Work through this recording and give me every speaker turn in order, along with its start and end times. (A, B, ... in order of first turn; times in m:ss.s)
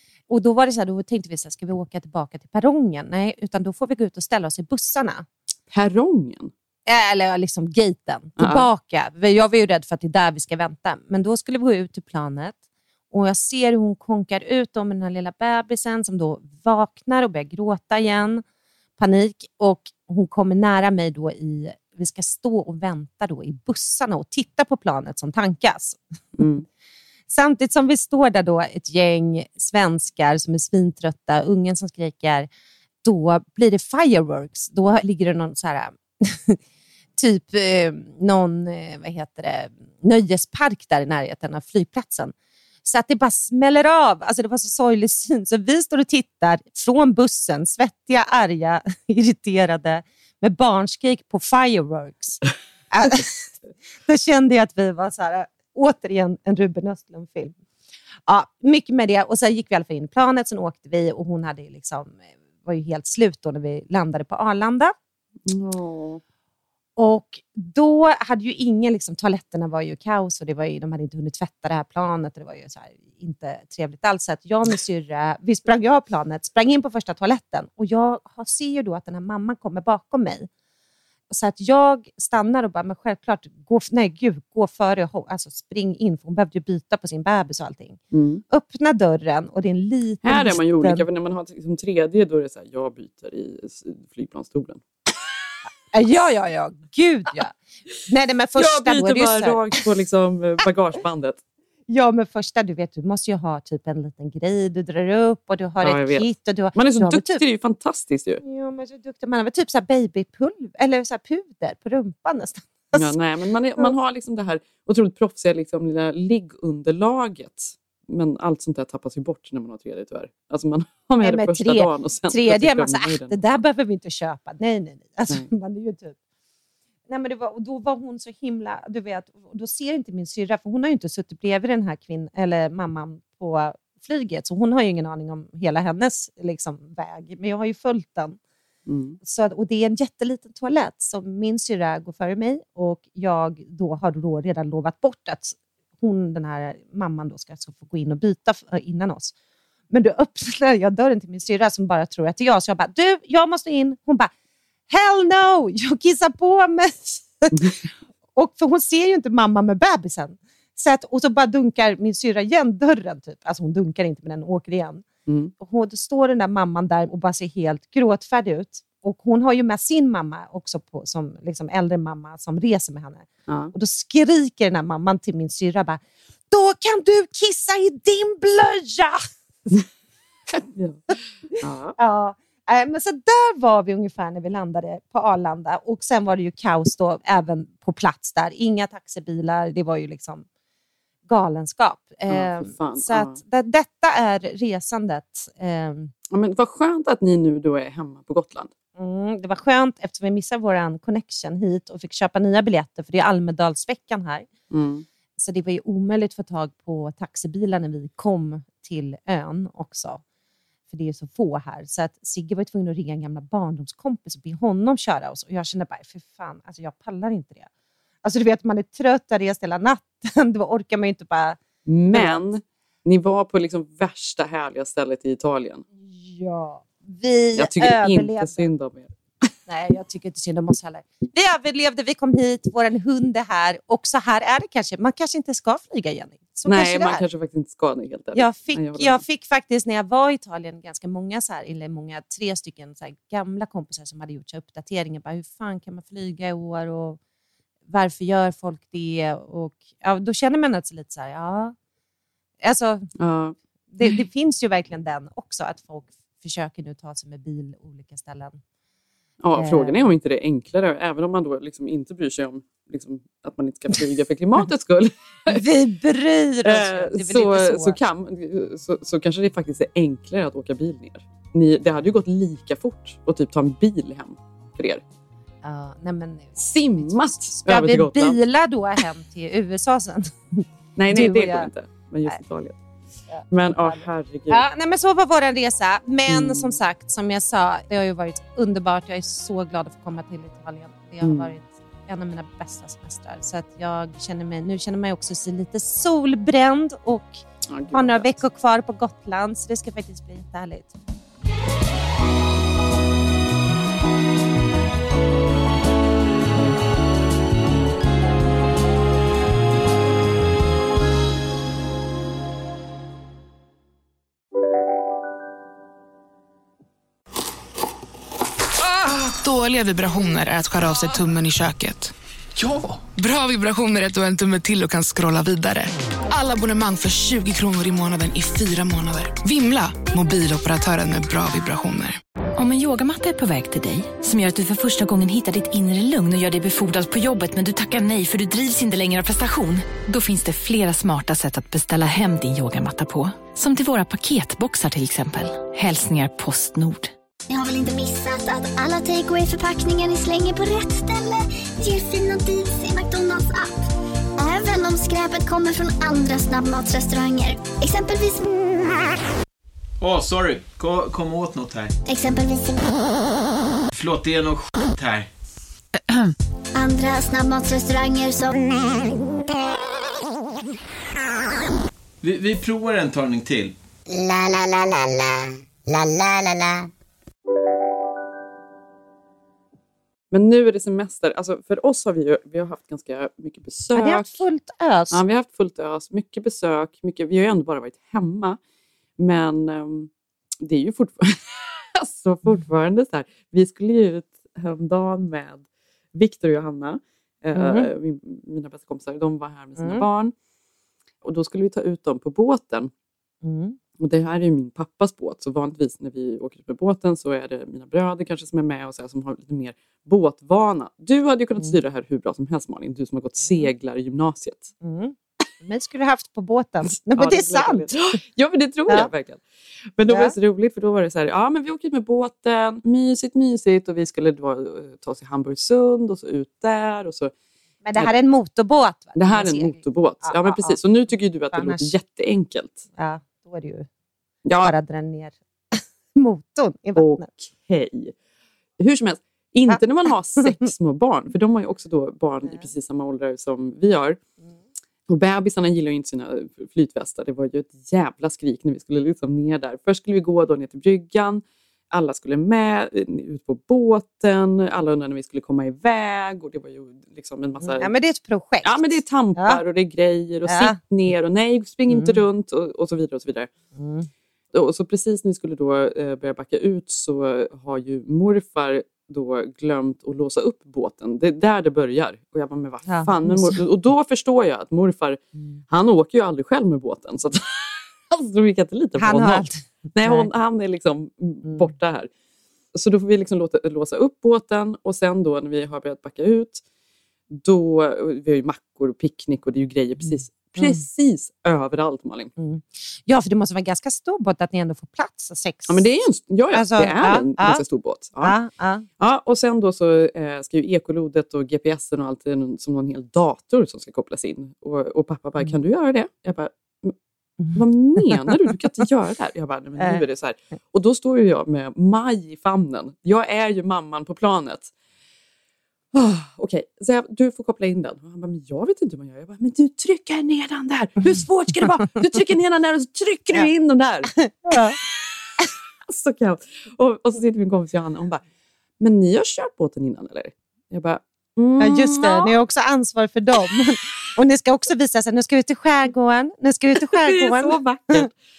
0:00.3-0:05.2 A
0:05.7-0:06.5 B
0:06.9-0:12.6 A
0:08.4-0:08.6 B
0:13.1-0:18.4 A
0:19.0-0:26.0 A
0:26.4-0:26.6 B
0:27.3-0:32.5 A
0:33.0-0:36.6 A
0:37.2-0:42.3 A
0:42.8-0:53.4 A
0:54.1-0:57.6 A
0:58.2-1:04.9 A
1:05.4-1:06.2 B
1:07.0-1:20.5 A
1:21.3-1:31.0 A
1:28.1-1:28.4 B
1:30.2-1:34.8 B
1:35.9-1:37.5 A
1:38.1-1:39.6 A
1:38.6-1:41.4 B
1:41.9-1:47.4 A
1:45.8-1:48.4 B
1:48.4-1:53.1 A
1:52.9-2:03.5 B
2:01.2-2:06.2 A
2:07.1-2:18.4 A
2:18.8-2:19.2 B
2:19.2-2:29.3 A
2:29.9-2:34.3 A
2:34.9-2:37.7 A
2:37.5-2:37.8 B
2:38.4-2:45.0 A
2:45.3-2:45.5 B
2:45.6-2:59.2 A
2:53.5-2:53.7 B
3:00.5-3:02.0 B
3:02.0-3:10.4 A
3:11.3-3:16.1 A
3:12.3-3:13.4 B
3:16.3-3:18.7 B
3:19.0-3:24.5 A
3:24.7-3:25.0 B
3:25.4-3:30.2 A
3:30.9-3:37.7 A
3:38.2-3:41.6 A
3:41.8-3:45.8 B
3:42.1-3:42.4 A
3:46.0-3:48.7 A
3:47.6-3:49.1 B
3:49.7-3:57.2 A
3:56.6-3:59.2 B
3:58.3-4:07.2 A
4:07.9-4:11.7 A
4:12.6-4:13.1 A
4:13.2-4:14.1 B
4:13.9-4:18.6 A
4:19.4-4:25.6 B
4:19.6-4:20.1 A
4:25.5-4:28.0 A
4:26.6-4:35.0 B
4:35.6-4:41.7 A
4:36.6-4:38.4 B
4:41.0-4:42.8 B
4:43.3-4:57.4 A
4:43.5-4:44.6 B
4:46.3-4:46.8 B
4:51.2-4:51.5 B
4:57.7-4:58.3 B
4:57.9-5:00.9 A
5:19.1-5:22.1 C
5:23.1-5:32.2 C
5:32.6-5:47.1 D
5:47.5-5:53.8 E
5:54.4-5:58.5 E
6:00.0-6:01.9 F
6:02.0-6:03.0 E
6:03.9-6:05.3 F
6:06.7-6:09.1 E
6:12.2-6:13.7 F
6:20.3-6:24.4 B
6:23.9-6:25.2 A
6:25.1-6:28.6 B
6:29.2-6:40.3 B
6:37.5-6:37.9 A
6:39.8-6:40.0 A
6:41.2-6:42.9 B
6:43.4-6:43.8 A
6:44.0-6:54.7 B
6:54.8-6:57.9 A
6:57.2-6:59.4 B
7:00.0-7:07.3 B
7:00.1-7:00.3 A
7:07.8-7:10.8 A
7:09.2-7:12.8 B
7:11.5-7:12.0 A
7:13.0-7:13.9 A
7:14.4-7:14.7 B
7:14.6-7:17.3 A
7:17.0-7:18.1 B
7:18.8-7:24.2 B
7:25.1-7:37.9 B
7:37.6-7:39.6 A
7:38.6-7:43.5 B
7:40.4-7:40.8 A
7:41.9-7:42.2 A
7:43.8-7:44.1 A
7:44.5-8:02.1 B
7:52.8-7:53.6 A
7:55.3-7:55.6 A
7:59.0-8:00.3 A
8:01.4-8:01.7 A
8:02.7-8:06.6 B
8:07.3-8:12.3 B
8:10.0-8:10.8 A
8:12.4-8:15.9 A
8:15.7-8:18.4 B
8:16.5-8:17.6 A
8:18.2-8:18.9 A
8:19.0-8:26.9 B
8:27.4-8:28.3 A
8:27.5-8:34.7 B
8:35.9-8:44.1 B
8:44.3-8:44.8 A
8:44.7-8:44.9 B
8:45.9-8:48.2 B
8:48.8-8:52.3 B
8:51.6-8:58.1 A
8:56.7-8:58.1 B